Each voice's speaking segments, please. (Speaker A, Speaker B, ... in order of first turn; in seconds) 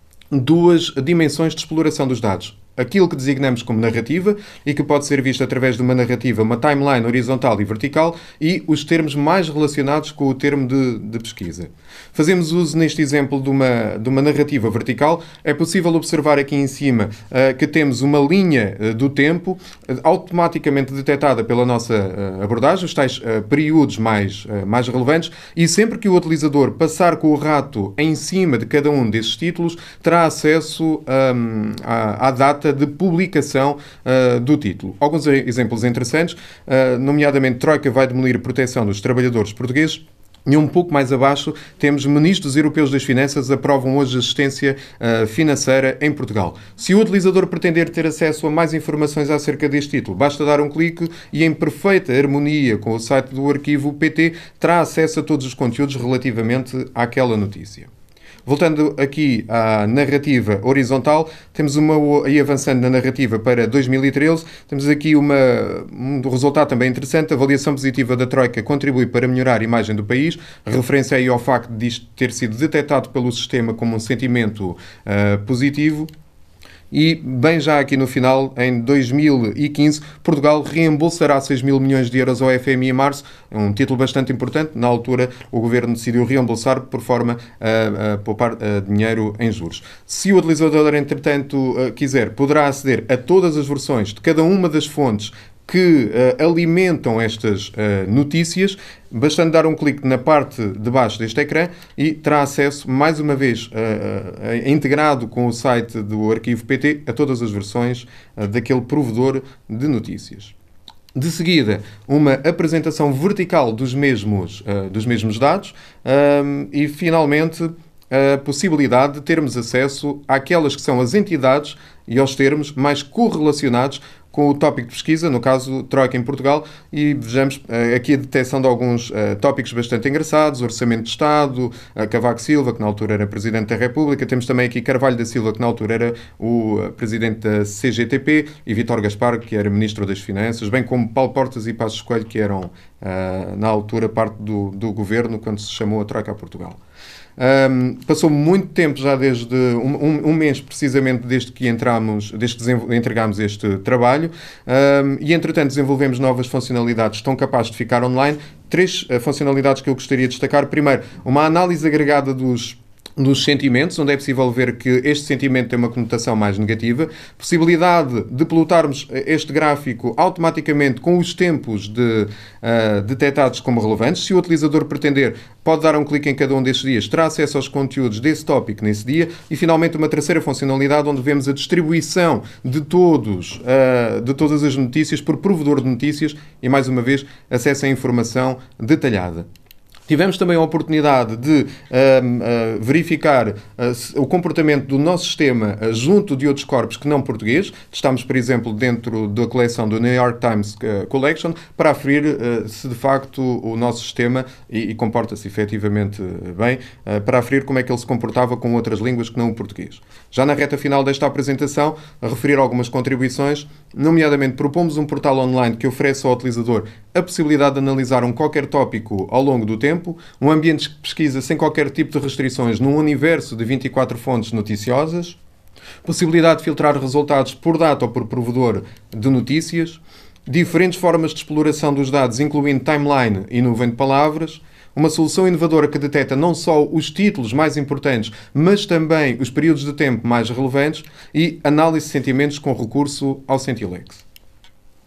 Speaker A: 0.3-57.9, 58.5-76.1, 76.9-110.5, 111.1-146.8, 147.4-189.5, 190.1-225.4, 226.0-244.2